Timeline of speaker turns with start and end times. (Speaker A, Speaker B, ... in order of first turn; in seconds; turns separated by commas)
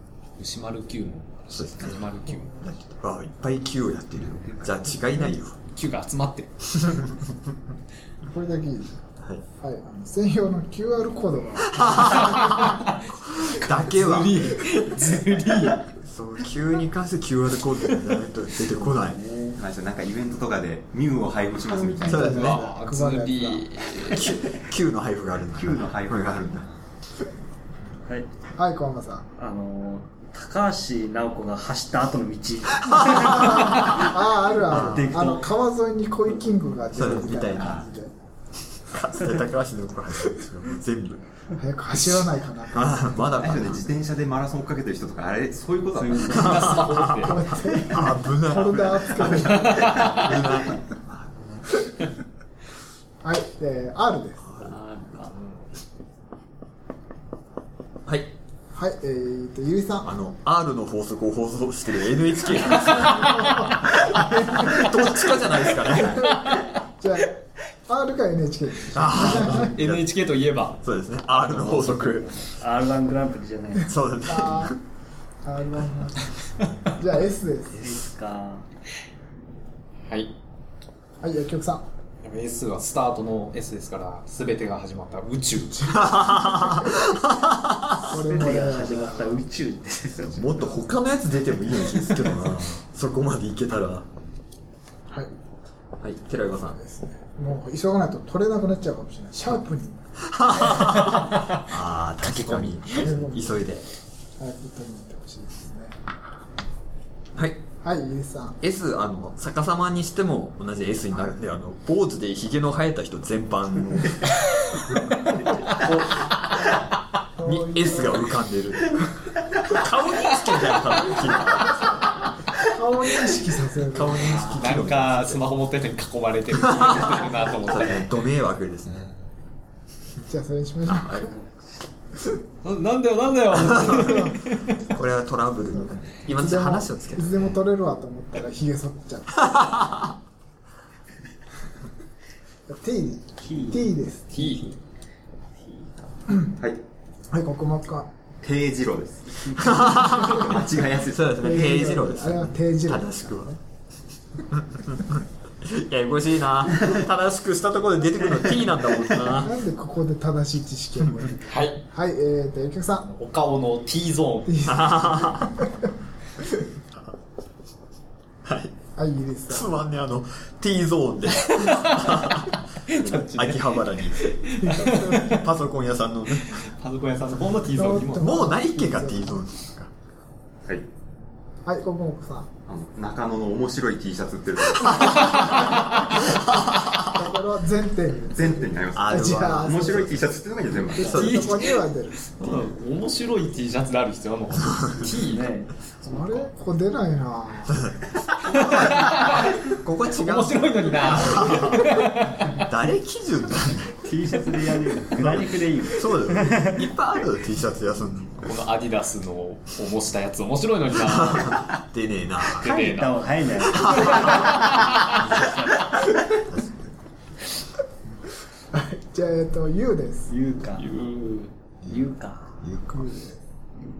Speaker A: 0.4-2.5, Speaker B: 1.5-5.6, Speaker A: 5.7-6.5, Speaker B: 6.7-7.2, Speaker C: 8.2-9.0, Speaker C: 9.6-12.8, Speaker B: 11.7-14.7, Speaker A: 12.4-12.9, Speaker A: 13.6-15.8, Speaker B: 16.0-19.2, Speaker D: 18.6-19.6, Speaker E: 19.6-22.5, Speaker C: 21.7-23.7, Speaker B: 22.0-22.6, Speaker A: 22.2-24.3, Speaker B: 24.1-26.6, Speaker E: 25.5-26.6, Speaker C: 28.6-29.2, Speaker D: 29.4-35.5, Speaker C: 33.3-38.1, Speaker B: 34.7-35.1, Speaker B: 36.9-37.9, Speaker E: 37.6-37.8, Speaker B: 38.9-41.2, Speaker C: 41.6-43.3, Speaker B: 41.9-43.9, Speaker E: 43.4-46.2, Speaker D: 45.9-47.1, Speaker A: 46.2-47.5, Speaker B: 46.3-51.6, Speaker C: 47.2-50.0, Speaker E: 48.7-50.2, Speaker A: 49.5-50.2, Speaker C: 53.2-54.4, Speaker B: 54.4-54.8, Speaker D: 54.6-55.4, Speaker A: 55.3-55.6, Speaker B: 58.0-58.3, Speaker C: 58.7-60.1, Speaker B: 60.0-66.4, Speaker A: 62.8-63.2, Speaker C: 63.0-64.9, Speaker C: 65.9-67.3, Speaker A: 66.1-66.7, Speaker C: 67.9-69.8, Speaker B: 68.9-70.0, Speaker A: 69.3-70.8, Speaker B: 70.8-72.4, Speaker D: 71.4-73.9, Speaker B: 73.8-74.8, Speaker C: 74.2-74.8, Speaker C: 75.4-76.3, Speaker C: 76.9-77.8, Speaker D: 77.8-78.7, Speaker C: 81.2-81.8, Speaker A: 82.2-86.0, Speaker B: 85.9-88.0, Speaker C: 86.4-87.0, Speaker D: 88.0-90.8, Speaker C: 88.0-89.4, Speaker B: 90.3-94.1, Speaker B: 96.0-96.8, Speaker C: 96.7-100.0, Speaker B: 100.2-103.8, Speaker A: 100.7-101.6, Speaker A: 102.2-103.1, Speaker C: 102.9-103.6, Speaker C: 104.4-106.0, Speaker B: 107.3-107.6, Speaker C: 107.8-108.6, Speaker B: 108.6-114.4, Speaker D: 115.7-116.2, Speaker C: 117.4-118.2, Speaker B: 117.4-119.0, Speaker B: 119.6-122.1, Speaker C: 122.6-124.5, Speaker B: 123.8-125.4, Speaker A: 124.4-128.1, Speaker B: 126.6-129.1, Speaker C: 130.3-131.3, Speaker B: 130.9-131.3, Speaker A: 132.6-134.7, Speaker B: 133.5-134.3, Speaker C: 133.7-134.4, Speaker B: 134.8-137.6, Speaker C: 135.8-140.0, Speaker C: 142.7-144.5, Speaker D: 143.4-143.9, Speaker A: 144.3-144.7, Speaker D: 145.6-146.1, Speaker C: 146.3-146.5, Speaker C: 147.3-148.1, Speaker E: 148.4-151.2, Speaker D: 149.4-150.2, Speaker B: 149.6-153.5, Speaker C: 151.4-153.6, Speaker B: 154.5-159.6, Speaker C: 159.3-163.1, Speaker A: 161.5-161.8, Speaker A: 163.1-164.7, Speaker C: 164.5-165.7, Speaker B: 164.6-165.5, Speaker B: 168.4-168.7, Speaker C: 169.0-169.7, Speaker B: 169.5-174.3, Speaker A: 171.6-175.4, Speaker C: 174.6-175.4, Speaker B: 175.1-176.6, Speaker A: 176.4-178.3, Speaker C: 177.7-179.4, Speaker B: 178.1-179.9, Speaker C: 181.6-182.5, Speaker E: 182.7-185.8, Speaker A: 185.2-186.0, Speaker B: 186.2-187.0, Speaker C: 187.1-190.2, Speaker E: 188.3-191.3, Speaker B: 188.9-190.3, Speaker C: 190.9-192.2, Speaker B: 190.9-191.6, Speaker A: 191.1-195.5, Speaker B: 194.6-195.1, Speaker D: 195.1-195.7, Speaker C: 196.0-197.8, Speaker B: 197.7-204.0, Speaker A: 198.4-202.6, Speaker D: 204.0-206.9, Speaker B: 205.2-208.6, Speaker A: 208.4-211.7, Speaker B: 211.0-212.7, Speaker A: 212.4-215.2, Speaker D: 212.6-215.9, Speaker B: 213.8-214.6, Speaker B: 215.1-216.9, Speaker C: 218.7-220.3, Speaker D: 220.3-221.0, Speaker A: 220.8-221.5, Speaker D: 221.9-222.5, Speaker B: 222.6-223.1, Speaker C: 222.9-223.4